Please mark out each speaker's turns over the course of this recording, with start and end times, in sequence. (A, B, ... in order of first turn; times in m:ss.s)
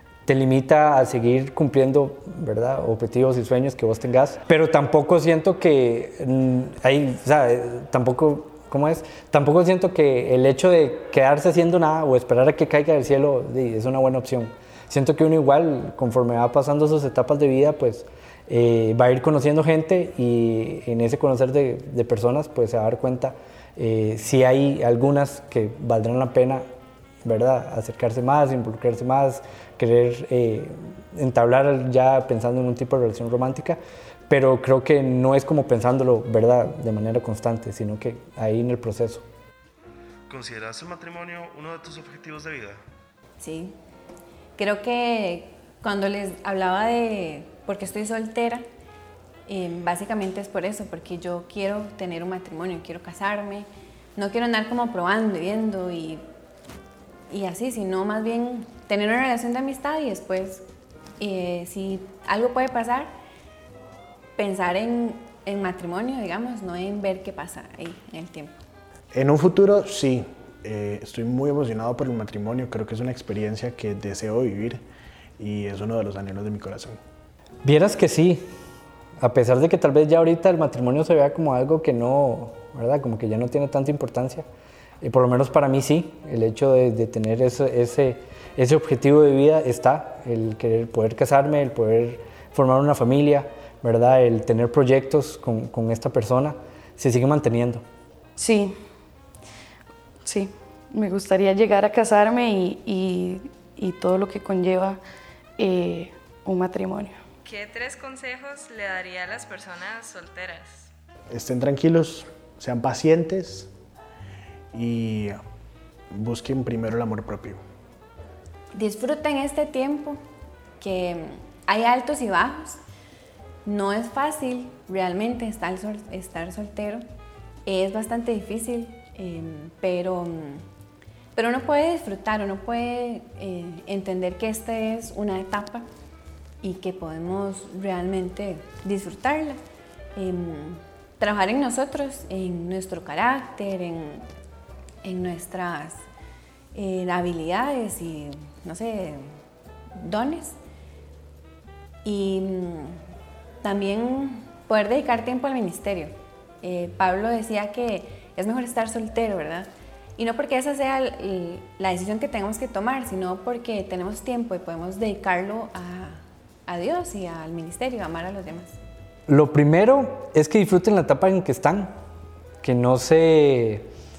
0:00.2-0:26.6 A
0:27.2-0:39.2 A
0:40.3-0:42.8 B
0:43.4-0:43.7 C
0:44.6-0:48.6 C
0:49.5-0:56.2 C
0:57.3-1:00.6 C
1:01.2-1:03.1 C
1:04.4-1:08.5 C
1:09.1-1:14.8 D
1:15.4-1:17.0 D
1:17.6-1:18.5 A
1:19.2-1:24.4 A
1:25.0-1:37.8 A
1:38.4-1:38.7 E
1:40.2-1:45.0 E
1:45.6-1:47.2 E
1:47.4-1:50.9 F
1:51.3-1:53.7 D
1:54.7-1:55.4 D
1:56.1-1:57.6 D
1:58.7-2:00.2 C
2:00.8-2:02.8 C
2:03.6-2:07.0 C
2:07.6-2:10.6 C
2:11.4-2:15.9 C
2:16.6-2:19.6 C
2:20.2-2:24.2 C
2:25.0-2:26.0 C
2:26.7-2:29.3 C
2:30.0-2:30.5 C
2:32.0-2:33.0 C
2:33.6-2:48.8 C
2:49.3-2:51.9 A
2:52.6-2:53.9 A